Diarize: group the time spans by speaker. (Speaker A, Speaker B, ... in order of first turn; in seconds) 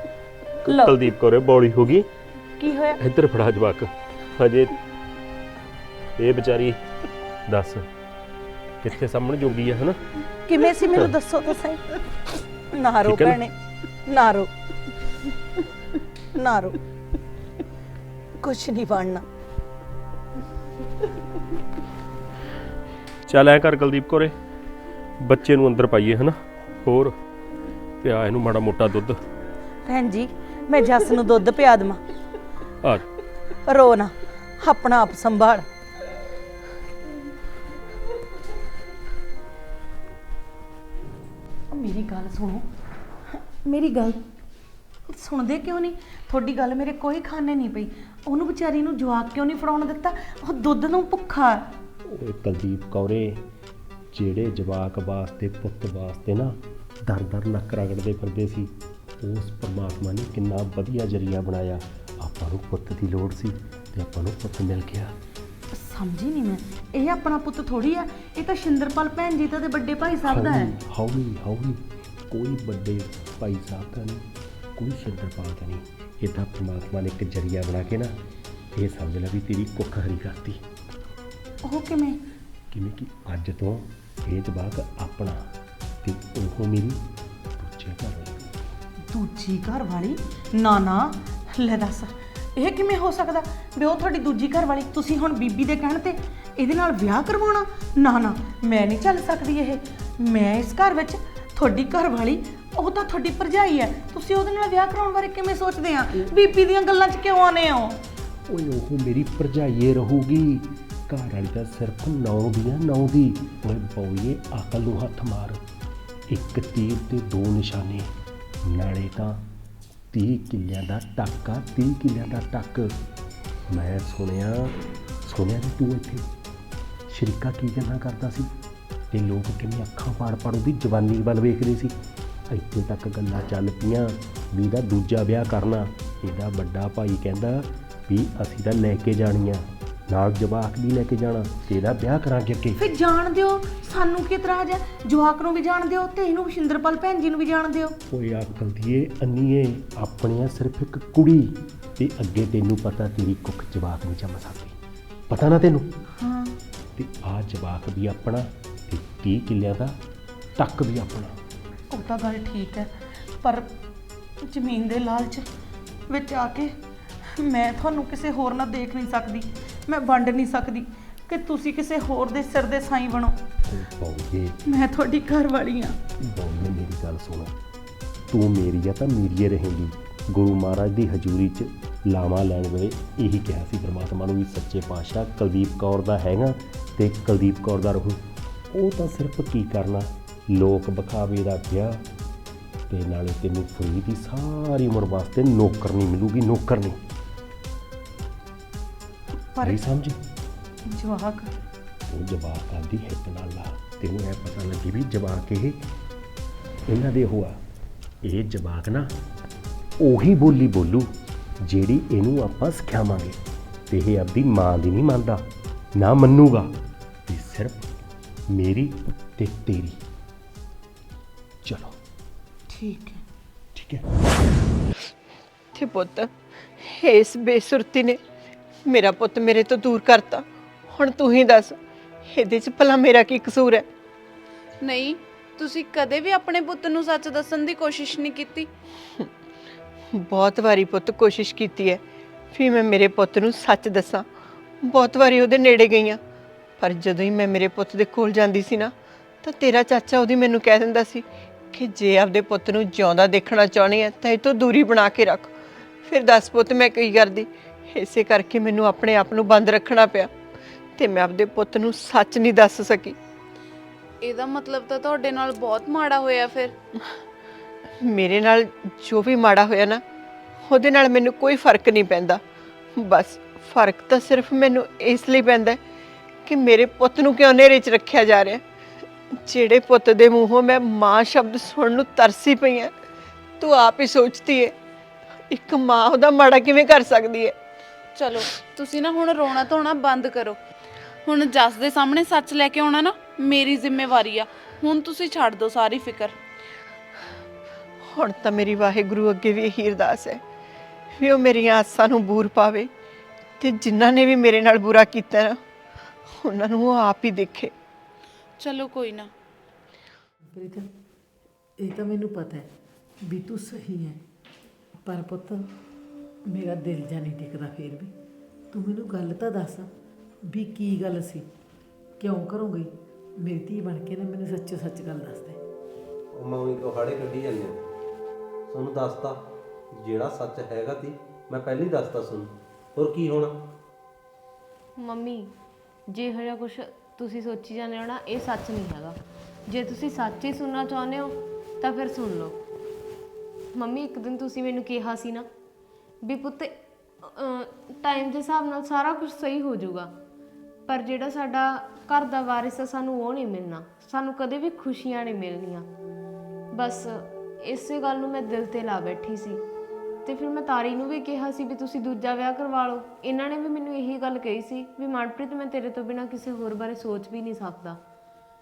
Speaker A: 0.6-2.1, 3.0-4.8, 6.2-6.8, 7.5-7.9, 8.8-10.0, 13.1-13.4, 23.3-24.4, 25.2-27.2, 28.0-29.2, 52.1-53.4, 54.1-65.1, 70.2-78.1, 78.8-80.6, 82.7-85.4, 86.0-87.0, 87.6-88.5, 108.5-115.6, 116.3-118.1, 118.6-119.4, 120.1-123.0, 123.7-126.3, 127.1-128.5, 129.1-131.9, 132.5-142.8, 148.1-154.8, 155.3-155.9, 157.0-160.0, 160.6-161.3, 173.7-174.6, 176.2-177.5, 178.3-192.0, 192.9-197.0, 199.6-200.2, 202.1-205.8, 206.9-207.6, 208.2-209.1, 210.0-211.1, 211.6-216.7, 217.3-217.9, 218.5-220.0, 221.6-222.0, 223.8-224.1
Speaker B: 33.7-34.0, 34.7-35.0, 41.7-42.7, 43.4-44.2, 45.1-51.7, 65.7-70.7, 81.6-82.2, 89.1-108.0, 142.8-148.0, 156.2-156.5, 161.9-162.9, 163.4-163.7, 164.4-165.4, 166.1-166.7, 167.3-173.4, 174.7-176.0, 200.9-201.5, 222.7-223.2
Speaker C: 225.7-228.2, 228.9-231.8, 232.3-233.9, 240.1-242.0, 242.5-244.3, 244.8-246.2, 246.8-260.3, 261.0-263.2, 268.0-270.0, 270.7-272.4, 272.9-275.8, 276.5-278.6, 279.4-282.9, 283.6-284.8, 285.5-287.6, 298.1-300.4, 301.2-302.9, 303.6-305.6, 306.3-307.7
Speaker D: 234.8-238.7, 264.2-266.7, 288.1-290.6, 291.3-296.4, 308.6-309.3
Speaker E: 310.5-310.9, 311.8-312.7, 313.2-314.2, 315.1-315.6, 316.5-318.1, 318.7-319.9, 320.5-321.5, 322.2-325.6
Speaker F: 326.3-327.8, 328.7-329.4, 329.9-333.5
Speaker G: 335.0-335.5, 336.1-342.6, 343.7-345.5, 346.2-350.1, 350.9-355.9, 356.7-359.6, 360.2-368.0